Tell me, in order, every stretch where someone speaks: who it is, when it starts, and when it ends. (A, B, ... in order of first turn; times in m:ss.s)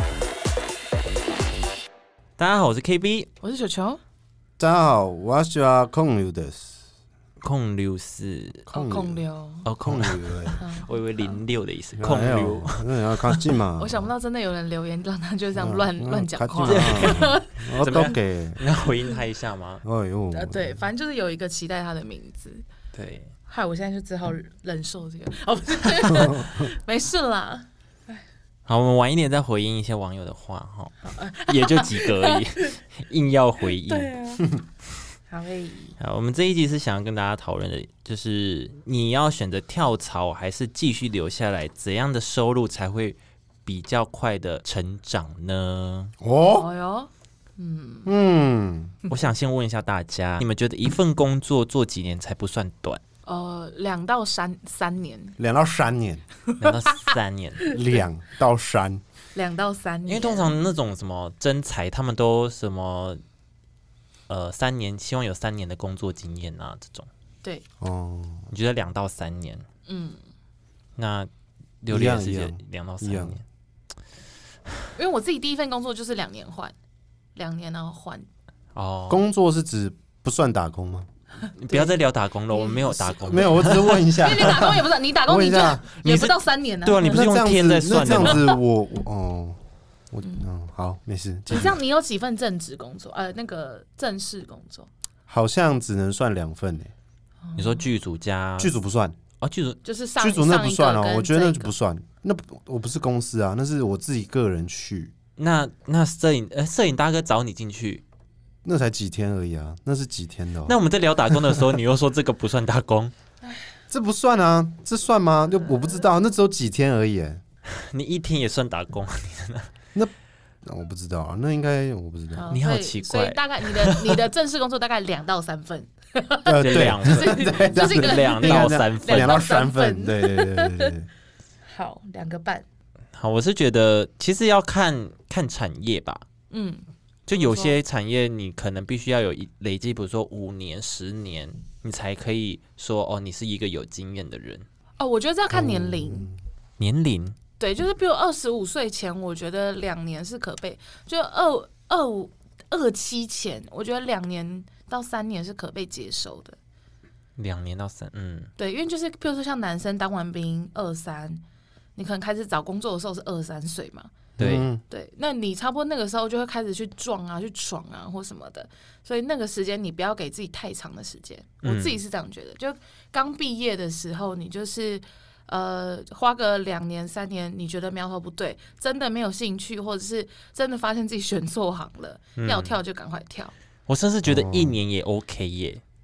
0:02.4-0:03.3 A
0:03.4-0:04.0 B
0:04.6-0:06.8 C
0:07.4-0:08.6 A
0:08.7-0:09.7 B
0:08.7-0:09.2 C
0:09.6-0:13.4 A
0:09.8-0:10.6 C
0:10.6-0:10.9 B
0:12.0-0:14.1 C
0:13.8-0:18.1 B
0:15.6-0:18.6 C
0:16.6-0:19.8 A
0:19.8-0:20.8 C
0:20.3-0:22.6 B
0:22.9-0:23.3 A
0:23.5-0:28.2 B
0:26.2-0:26.5 C
0:28.7-0:34.1 A
0:31.0-0:32.8 B
0:33.9-0:34.5 B
0:35.3-0:36.0 B
0:36.0-0:46.1 A
0:46.2-0:46.7 C
0:46.6-0:48.1 B
0:48.0-0:49.0 C
0:49.1-0:53.0 A
0:53.2-0:55.4 B
0:55.4-0:56.2 C
0:56.6-0:57.7 A
0:56.7-0:57.1 B
0:57.7-0:59.0 C
0:59.4-1:00.6 B
1:00.1-1:03.2 A
1:04.3-1:07.1 A
1:07.8-1:08.5 C
1:08.5-1:09.7 A
1:09.9-1:10.2 B
1:11.0-1:11.3 A
1:11.8-1:13.4 A
1:11.9-1:13.4 C
1:15.0-1:16.7 B
1:17.4-1:18.3 B
1:18.8-1:19.2 A
1:19.1-1:21.1 C
1:21.6-1:24.6 A
1:21.7-1:22.0 B
1:22.5-1:27.3 B
1:23.2-1:25.8 C
1:25.8-1:28.5 A
1:27.1-1:29.6 C
1:28.1-1:28.5 B
1:30.1-1:31.7 C
1:31.5-1:34.9 B
1:35.3-1:36.9 C
1:37.5-1:37.8 B
1:37.6-1:38.7 A
1:38.6-1:39.2 C
1:39.4-1:39.8 A
1:39.8-1:41.7 B
1:40.2-1:45.1 C
1:45.4-1:48.0 A
1:48.6-1:51.8 C
1:50.7-1:53.1 A
1:53.9-1:57.4 C
1:57.7-1:59.7 A
2:00.6-2:02.6 C
2:02.3-2:10.9 B
2:02.5-2:04.2 A
2:06.5-2:11.1 C
2:06.5-2:09.4 A
2:11.7-2:12.7 B
2:13.2-2:16.2 A
2:16.5-2:17.8 B
2:17.3-2:24.7 A
2:25.0-2:26.3 B
2:25.5-2:26.4 C
2:26.8-2:27.4 A
2:27.6-2:36.6 B
2:37.4-2:38.5 A
2:38.6-2:41.4 B
2:42.0-2:44.1 B
2:44.4-2:44.7 A
2:44.4-2:44.8 C
2:44.9-3:03.5 B
2:51.6-2:52.0 A
3:02.4-3:02.8 A
3:03.9-3:05.8 A
3:04.3-3:04.8 C